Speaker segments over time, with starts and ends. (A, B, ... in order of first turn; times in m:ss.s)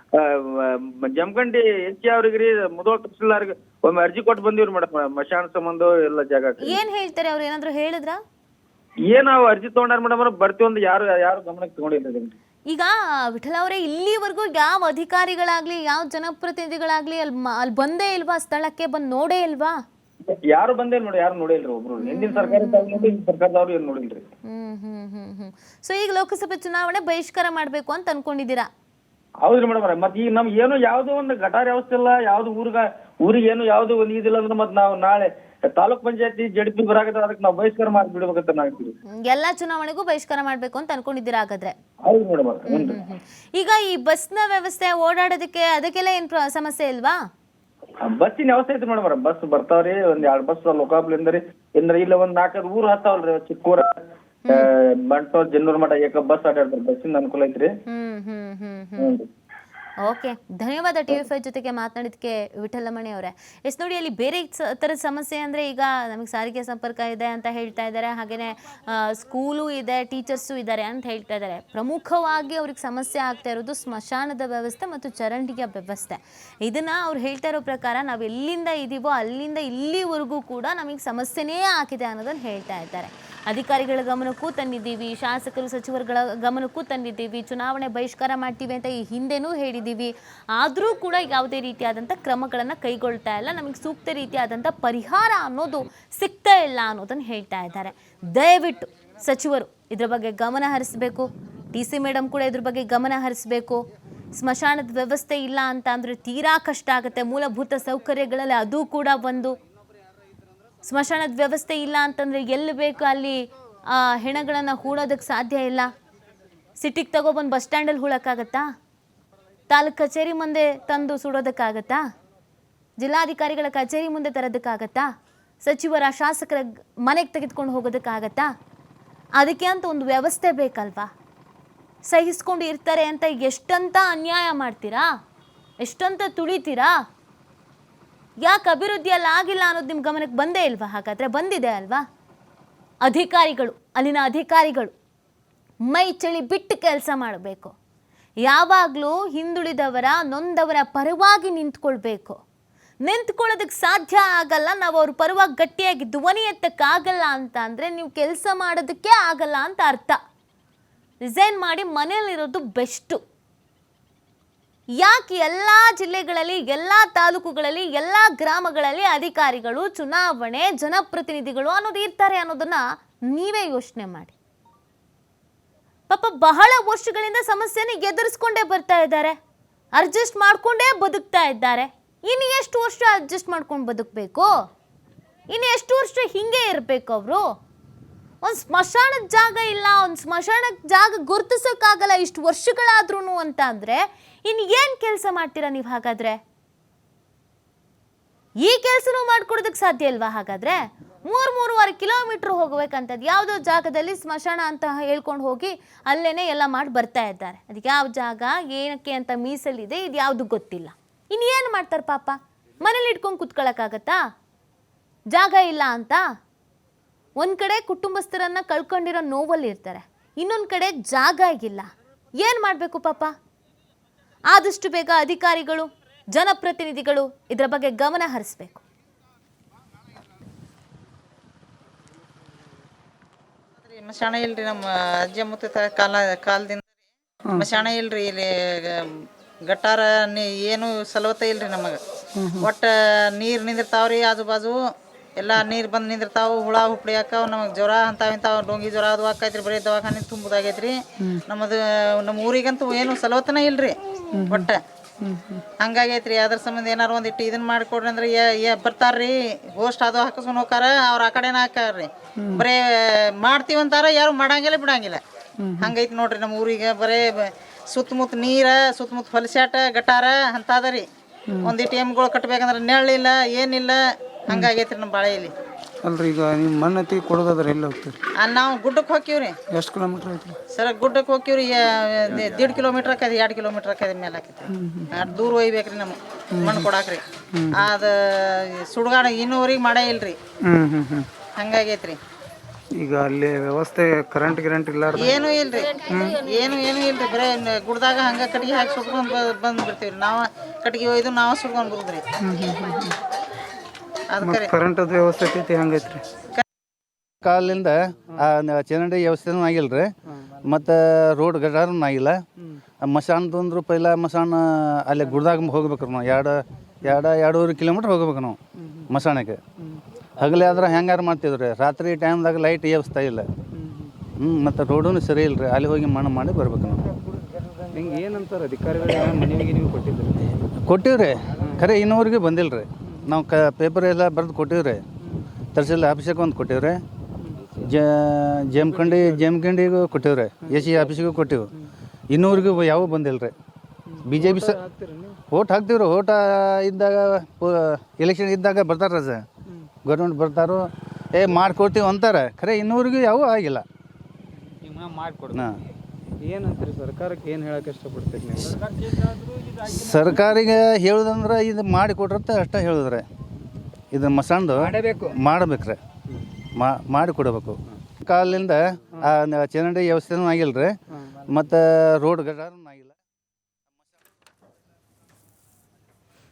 0:00.1-0:06.8 A
0:06.6-0:08.2 B
0:09.1-0:12.3 A
0:12.7-0:19.8 B
0:20.3-0:24.2 A
0:22.0-0:23.2 B
0:24.5-0:28.7 B
0:29.4-0:38.9 A
0:39.2-0:41.8 B
0:42.1-0:43.0 A
0:42.7-0:47.2 B
0:48.0-0:54.0 A
0:54.5-0:57.7 A
0:57.9-0:59.1 B
0:59.0-0:59.3 A
1:00.0-1:43.8 B
1:44.4-1:49.6 B
1:50.8-1:55.9 B
1:56.8-1:58.7 B
1:59.7-2:02.0 B
2:03.0-2:05.1 B
2:05.6-2:08.5 B
2:09.4-2:11.1 B
2:12.1-2:15.1 B
2:15.8-2:17.0 B
2:18.4-2:22.0 B
2:23.0-2:24.9 B
2:25.9-2:27.7 B
2:28.4-2:32.4 B
2:33.0-2:40.2 B
2:41.2-2:43.2 B
2:45.0-2:54.3 B
2:56.1-2:59.4 B
3:00.0-3:04.5 B
3:05.5-3:07.4 B
3:08.4-3:16.4 B
3:18.6-3:34.2 B
3:35.3-3:36.2 B
3:37.4-3:41.9 B
3:42.4-3:43.3 B
3:44.5-3:48.8 B
3:53.8-3:56.9 C
3:57.6-3:59.1 C
3:59.7-4:02.0 C
4:02.4-4:02.7 D
4:02.6-4:14.0 C
4:14.3-4:14.7 D
4:14.5-4:14.8 C
4:15.2-4:15.6 D
4:15.8-4:25.2 C
4:22.4-4:22.6 D
4:25.6-4:25.9 D
4:25.8-4:31.1 C
4:31.6-4:35.5 C
4:36.0-4:38.2 D
4:38.4-4:39.6 C
4:39.7-4:40.6 D
4:40.7-4:50.4 C
4:44.7-4:45.4 D
4:46.6-4:46.9 D
4:47.5-4:47.8 D
4:50.6-4:51.3 D
4:51.6-4:52.2 C
4:53.0-4:55.4 D
4:55.2-5:02.2 C
4:56.1-4:56.4 D
5:02.4-5:03.2 D
5:04.3-5:04.7 C
5:04.4-5:06.2 D
5:07.4-5:12.4 E
5:13.0-5:19.6 E
5:18.8-5:19.1 D
5:20.4-5:23.5 E
5:23.8-5:24.1 D
5:24.4-5:27.0 E
5:27.9-5:30.6 D
5:30.8-5:35.0 E
5:35.7-5:37.0 E
5:37.4-5:37.7 D
5:37.8-5:41.7 E
5:38.8-5:39.6 D
5:40.7-5:41.1 D
5:42.3-5:43.5 E
5:44.1-5:45.4 D
5:44.2-5:44.8 E
5:45.5-5:49.4 E
5:50.0-5:53.8 E
5:54.8-5:55.6 D
5:55.5-5:55.8 E
5:56.4-5:58.9 D
5:59.8-6:03.2 E
6:04.1-6:06.0 E
6:06.8-6:13.2 E